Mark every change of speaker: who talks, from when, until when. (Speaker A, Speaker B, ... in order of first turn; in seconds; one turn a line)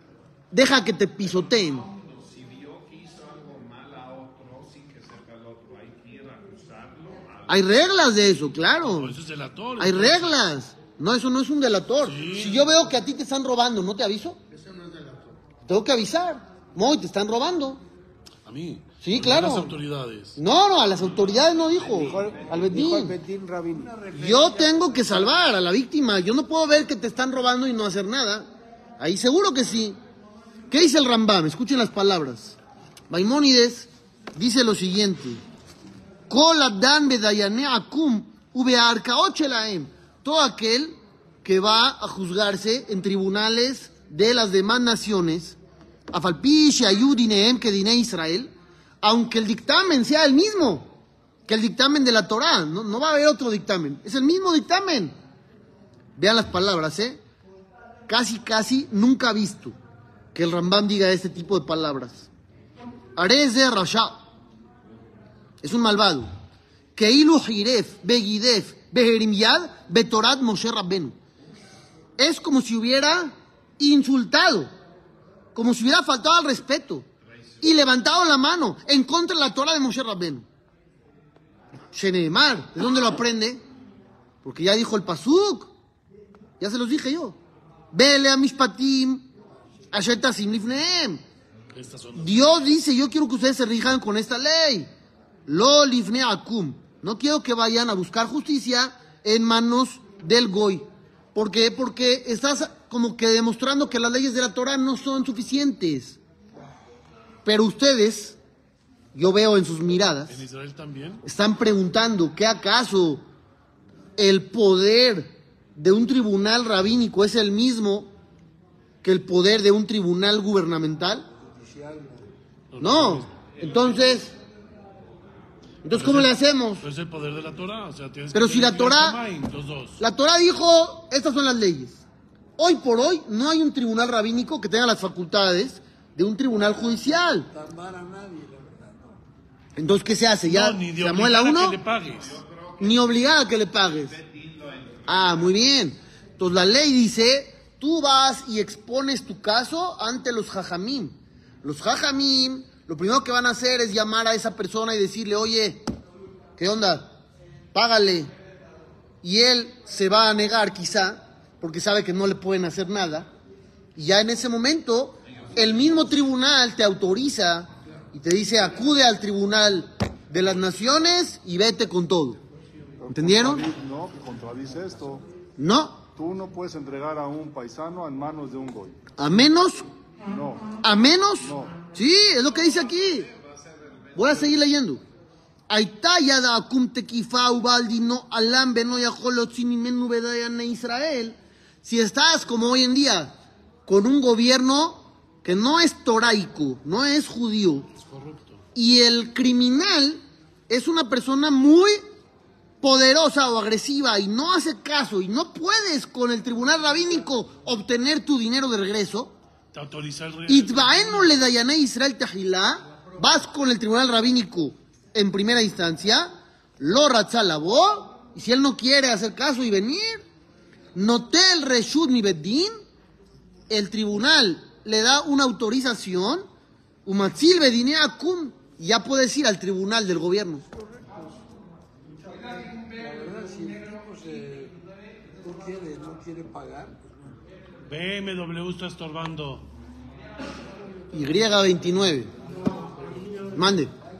Speaker A: 0.5-1.9
Speaker B: 1.4-7.8
Speaker A: 7.5-9.2
Speaker C: 8.8-10.4
Speaker A: 9.8-14.4
Speaker C: 12.0-12.7
Speaker D: 14.5-15.3
Speaker A: 15.7-17.8
Speaker C: 18.4-20.4
Speaker A: 19.0-19.8
Speaker A: 20.4-23.1
Speaker B: 21.7-22.6
Speaker D: 21.9-25.1
Speaker A: 24.1-28.5
Speaker A: 29.0-30.0
Speaker A: 30.7-32.5
Speaker A: 33.1-35.4
Speaker A: 36.3-45.6
Speaker A: 46.1-50.9
Speaker A: 51.5-55.1
Speaker A: 56.1-57.2
Speaker A: 58.1-59.8
Speaker A: 60.3-62.3
Speaker A: 63.1-64.2
Speaker A: 65.6-66.3
Speaker A: 66.9-71.2
Speaker A: 72.2-74.7
Speaker A: 75.5-77.0
Speaker A: 77.6-80.4
Speaker A: 81.9-83.6
Speaker A: 84.4-85.7
Speaker A: 86.6-87.4
Speaker A: 87.9-89.2
Speaker A: 89.9-91.2
Speaker C: 91.7-92.5
Speaker A: 92.1-94.9
Speaker A: 95.5-106.2
Speaker A: 107.4-108.4
Speaker A: 109.1-110.4
Speaker C: 110.3-111.2
Speaker A: 111.2-113.2
Speaker A: 114.2-118.1
Speaker A: 119.0-121.3
Speaker D: 121.4-122.3
Speaker C: 122.7-123.4
Speaker A: 122.8-124.3
Speaker A: 125.8-126.8
Speaker C: 125.9-130.0
Speaker A: 128.3-129.2
Speaker A: 130.0-132.0
Speaker A: 132.6-137.5
Speaker D: 137.5-139.2
Speaker A: 139.8-141.8
Speaker C: 140.5-142.4
Speaker B: 142.3-143.2
Speaker A: 142.8-144.2
Speaker B: 143.9-145.6
Speaker A: 145.1-155.8
Speaker A: 156.6-157.1
Speaker A: 157.7-158.3
Speaker A: 159.2-163.3
Speaker A: 163.9-172.4
Speaker E: 173.0-175.2
Speaker A: 173.1-173.7
Speaker A: 175.6-176.0
Speaker E: 176.1-179.0
Speaker A: 179.2-179.9
Speaker E: 180.2-180.8
Speaker A: 180.8-183.3
Speaker E: 181.4-181.8
Speaker A: 184.1-185.0
Speaker A: 185.7-193.3
Speaker A: 193.9-197.9
Speaker C: 198.0-198.6
Speaker A: 198.8-202.0
Speaker A: 202.8-209.3
Speaker C: 209.7-211.4
Speaker A: 210.5-220.2
Speaker A: 220.9-222.7
Speaker A: 223.7-226.4
Speaker A: 227.1-230.6
Speaker D: 232.7-234.8
Speaker D: 235.4-237.1
Speaker C: 237.9-239.7
Speaker A: 241.1-242.3
Speaker A: 243.5-243.9